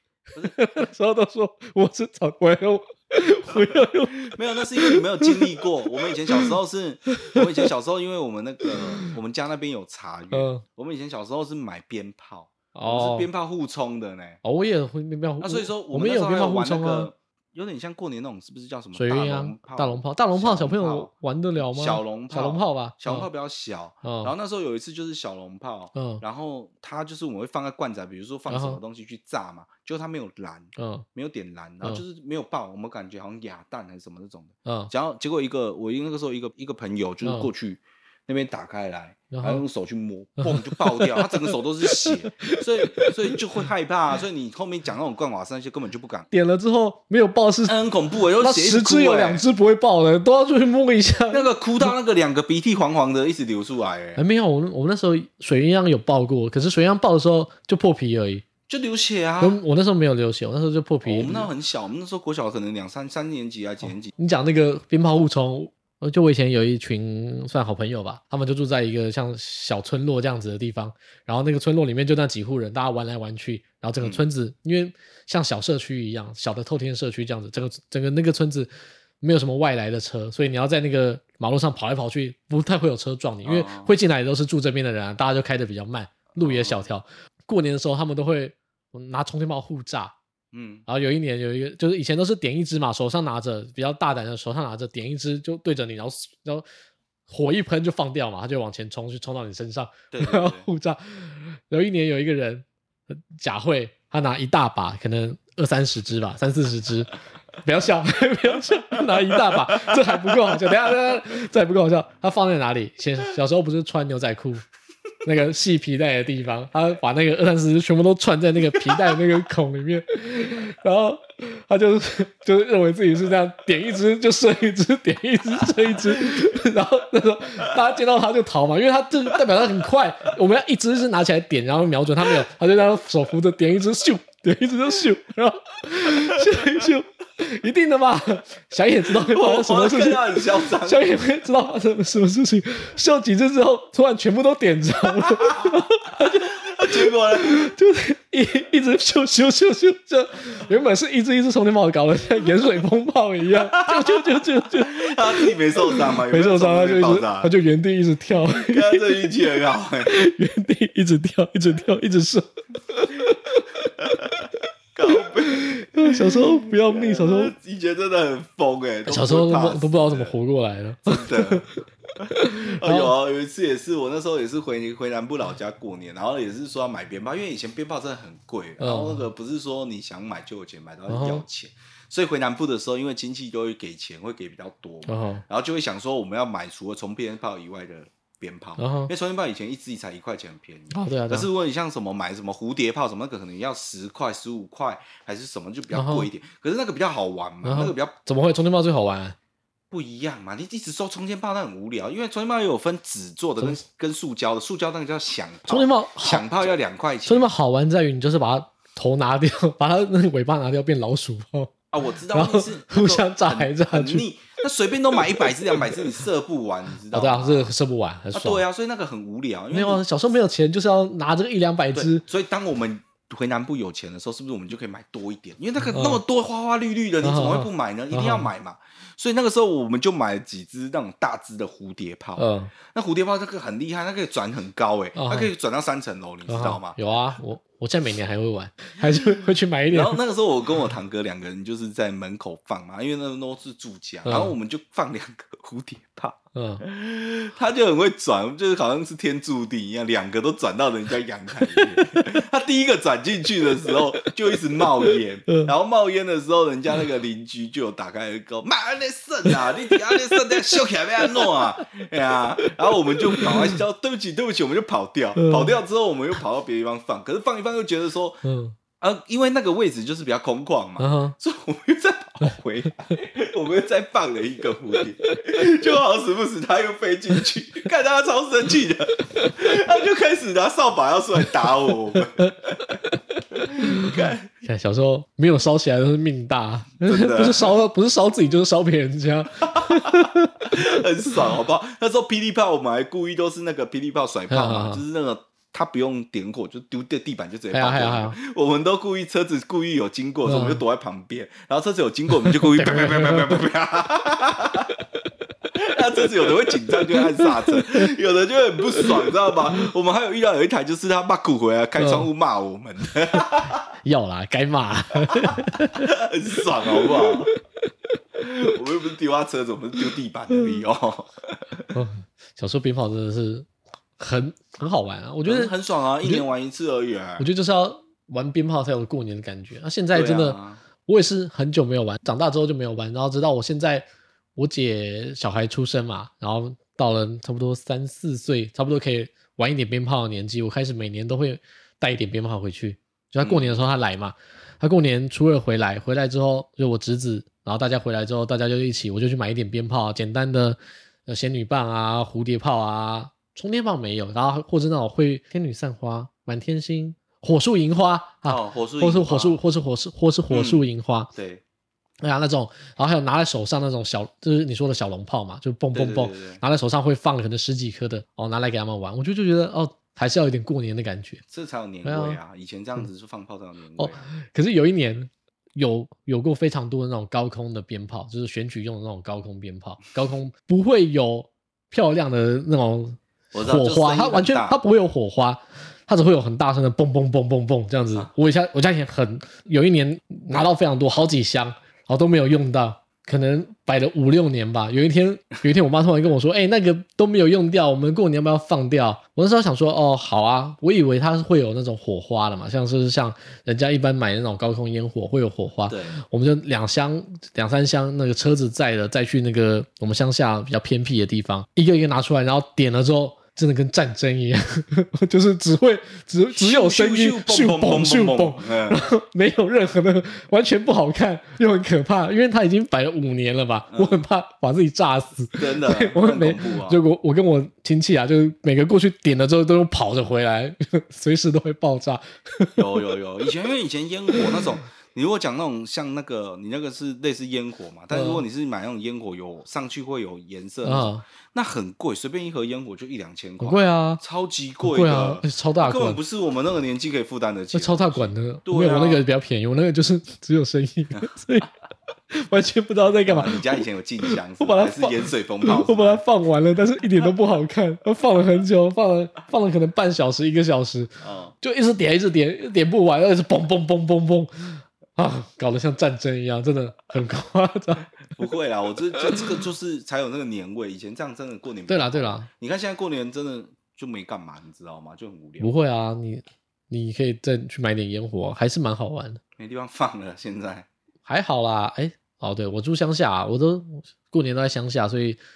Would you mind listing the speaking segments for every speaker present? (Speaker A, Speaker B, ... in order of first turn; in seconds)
Speaker A: 0.4-6.5, 8.7-9.0, 10.3-10.6, 12.7-13.3, 14.4-17.1, 18.9-23.3, 24.0-24.3, 25.9-26.2, 28.5-28.8, 30.8-31.1, 34.6-34.9, 37.2-37.5, 39.3-39.6, 40.4-43.3, 46.3-47.8, 48.4-51.9, 54.2-58.4, 59.4-61.5, 64.2-78.7, 79.2-90.1, 90.9-96.6, 97.3-114.7, 115.2-159.3, 160.1-163.9, 165.1-167.5, 169.1-171.7, 172.3-173.1, 178.8-179.2, 181.1-181.4, 185.1-185.4, 188.8-189.1, 190.9-191.5, 195.9-196.3, 197.6-199.3, 205.7-206.4, 207.2-211.7, 212.3-214.2, 215.3-216.2, 217.1-218.6, 219.7-222.2, 225.9-226.2, 227.2-228.5, 232.4-232.7, 235.1-235.5, 236.5-240.2, 244.2-244.5, 246.5-246.8, 251.7-252.3, 253.9-254.3, 255.0-255.7, 260.1-260.8, 263.4-263.8, 265.4-265.8, 268.4-268.7, 271.0-271.4, 279.4-279.7, 281.7-291.0, 294.5-295.0, 297.7-298.4, 300.4-300.8, 302.4-303.7, 307.1-308.1, 309.0-309.3, 312.0-312.3, 314.0-316.1, 316.9-317.6, 321.9-323.7, 324.2-326.5, 327.4-361.3, 362.2-371.4, 372.0-372.4, 374.0-432.8, 434.3-434.7, 438.1-438.4, 440.8-441.2, 443.6-444.2, 444.8-446.2, 447.7-451.7, 452.3-468.1, 471.9-472.5, 475.6-479.4, 481.2-485.4
Speaker B: 4.1-14.4, 15.4-46.3, 47.6-49.4, 51.3-54.2, 58.7-59.6, 61.0-64.1, 83.4-83.9, 86.4-86.8, 90.5-90.8, 100.1-100.7, 139.1-141.0, 145.3-147.7, 153.5-157.5, 158.4-160.1, 164.9-170.3, 171.1-171.6, 172.2-198.1, 199.9-207.5, 211.9-217.7, 218.3-220.0, 221.9-237.0, 239.9-268.4, 269.0-283.0, 283.5-284.5, 287.0-287.8, 289.7-305.0, 305.7-313.9, 315.3-317.5, 318.4-321.9, 325.4-327.5, 330.1-330.8, 343.4-343.8, 358.5-359.6, 360.5-361.6, 365.9-366.6, 371.5-374.3, 383.5-384.8, 405.9-406.1, 416.5-419.0, 423.9-424.2, 425.6-427.0, 432.8-449.2, 453.2-456.2, 461.2-461.5, 468.3-475.7, 479.6-480.9